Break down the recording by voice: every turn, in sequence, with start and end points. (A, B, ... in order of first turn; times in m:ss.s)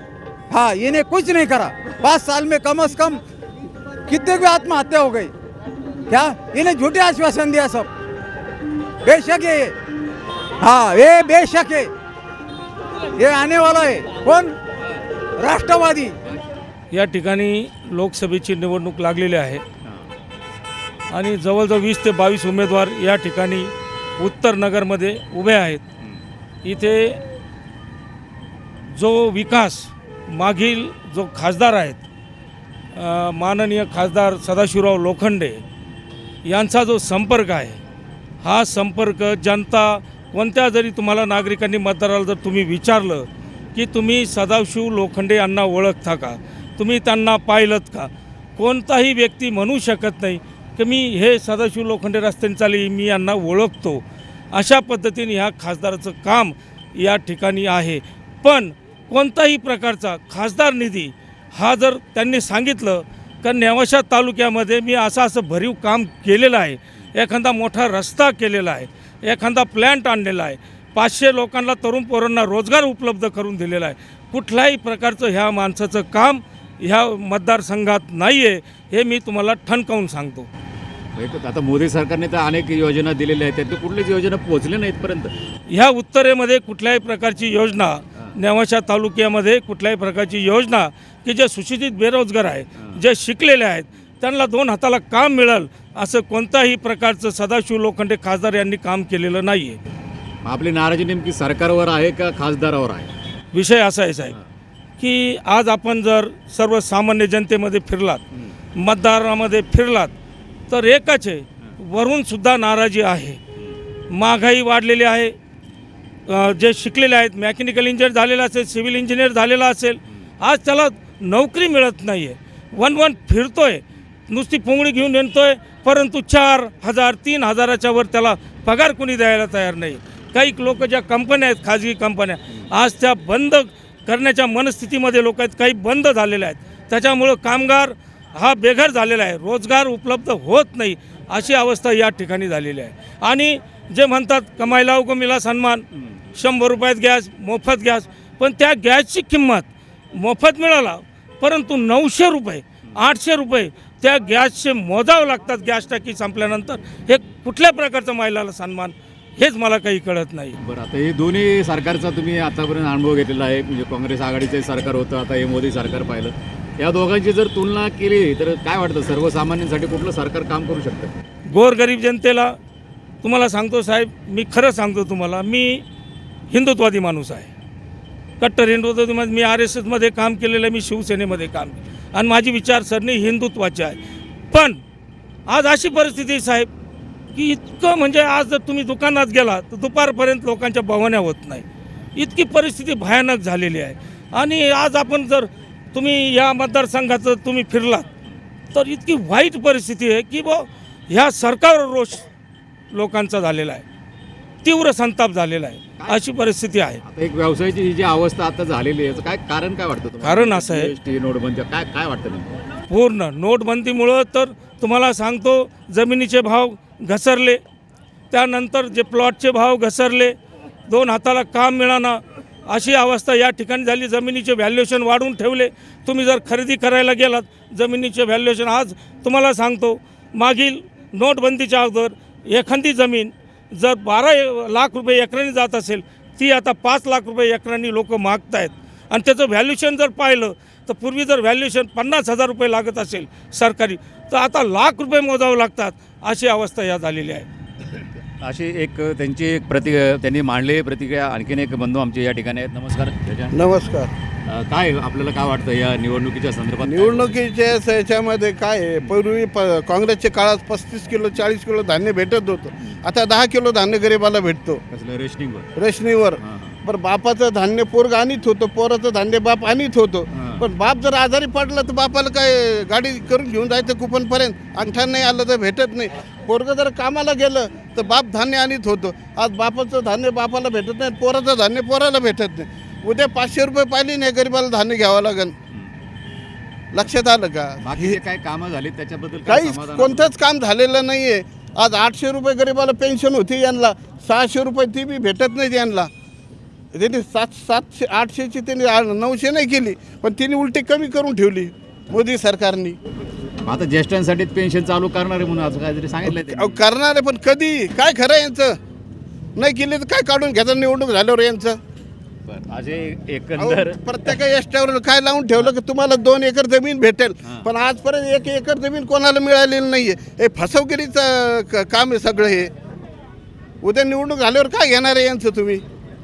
0:00.5-0:03.2 A
0:04.1-0:05.3 A
0:06.1-0:07.9 A
0:09.0-0:09.7 A
0:10.6-0:11.9 A
0:13.2-0:14.6 A
0:15.4-0:16.2 A
0:16.9-0:19.6 B
0:21.1-0:25.8 B
0:26.6-0:27.2 B
0:28.9-0:32.0 B
0:32.9-0:35.6 B
0:36.4-0:37.8 B
0:38.4-1:20.5 B
1:21.2-1:25.3 C
1:25.7-1:39.8 B
1:40.4-1:43.1 C
1:43.5-1:44.4 B
1:45.0-1:48.2 B
1:48.8-1:50.1 B
1:50.7-1:53.4 B
1:54.1-1:55.3 B
1:56.3-2:25.8 B
2:26.4-2:40.6 B
2:40.6-2:51.2 C
2:51.5-2:52.6 B
2:53.2-2:55.8 B
2:56.5-2:57.5 B
2:58.4-3:04.0 B
3:04.5-3:04.8 B
3:05.5-3:06.7 B
3:07.3-3:11.6 B
3:12.2-3:18.1 B
3:18.7-3:22.2 B
3:22.9-3:23.8 B
3:24.6-3:27.0 B
3:26.0-3:26.3 C
3:27.0-3:32.6 C
3:30.2-3:30.9 B
3:32.9-3:37.6 B
3:38.3-3:40.3 B
3:40.9-4:07.4 B
4:08.4-4:13.6 C
4:13.5-4:14.1 D
4:14.5-4:17.3 C
4:16.8-4:24.8 D
4:24.9-4:25.7 C
4:25.8-4:45.5 D
4:26.4-4:26.8 C
4:30.3-4:30.6 C
4:46.9-4:48.2 D
4:47.8-4:50.3 C
4:49.4-4:56.1 D
4:56.9-5:03.0 D
5:03.6-5:06.8 C
5:06.2-5:08.8 D
5:09.6-5:11.8 D
5:12.5-5:14.4 C
5:13.6-5:22.7 D
5:23.8-5:25.8 D